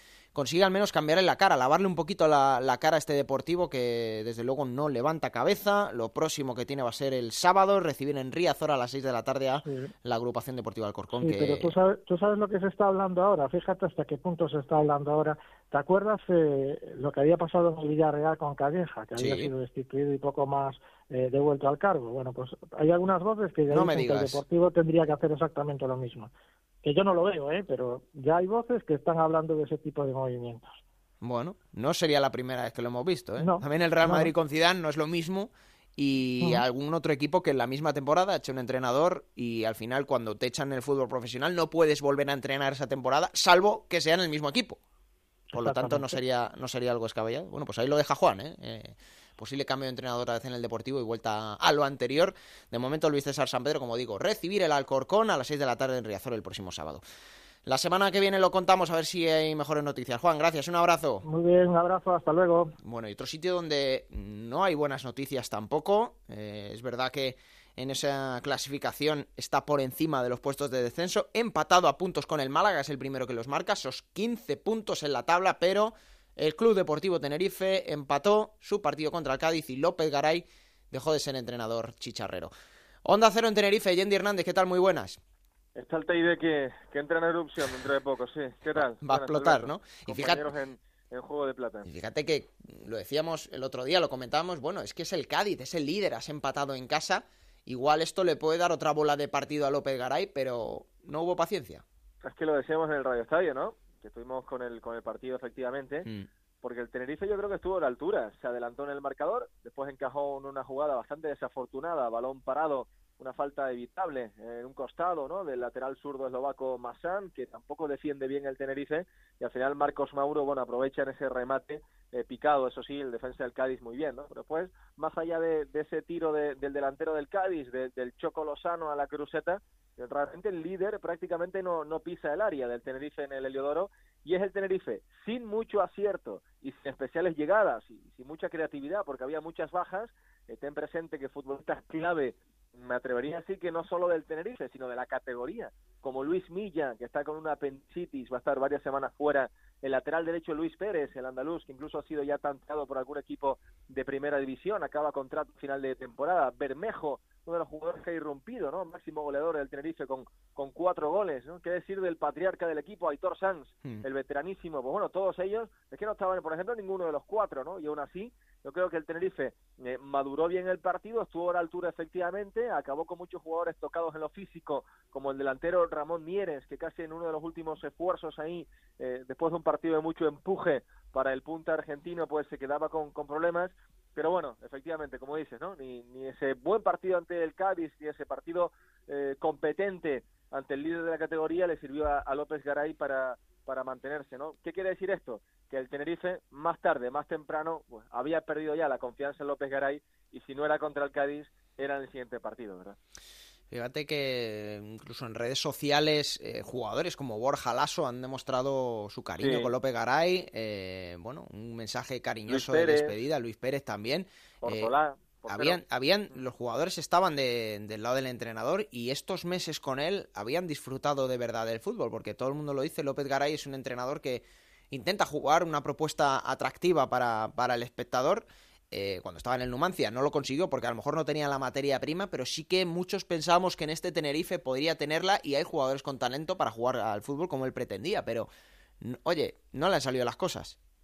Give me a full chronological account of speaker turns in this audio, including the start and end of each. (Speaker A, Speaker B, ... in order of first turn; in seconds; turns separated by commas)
Speaker A: 0.3-11.7, Speaker B: 9.6-9.9, Speaker B: 11.2-26.3, Speaker A: 19.1-19.5, Speaker A: 23.7-24.4, Speaker B: 26.8-30.8, Speaker A: 31.2-44.8, Speaker B: 33.4-34.3, Speaker B: 45.5-46.2, Speaker A: 45.5-57.0, Speaker A: 57.6-61.2, Speaker B: 61.2-62.8, Speaker A: 62.8-82.5, Speaker A: 83.0-85.2, Speaker C: 85.7-91.9, Speaker A: 88.7-90.5, Speaker A: 91.8-101.8, Speaker C: 102.2-106.1, Speaker C: 106.6-203.0, Speaker A: 203.7-214.9, Speaker C: 209.4-209.7, Speaker C: 212.5-213.2, Speaker C: 214.6-215.8, Speaker A: 215.5-238.5, Speaker A: 239.0-240.8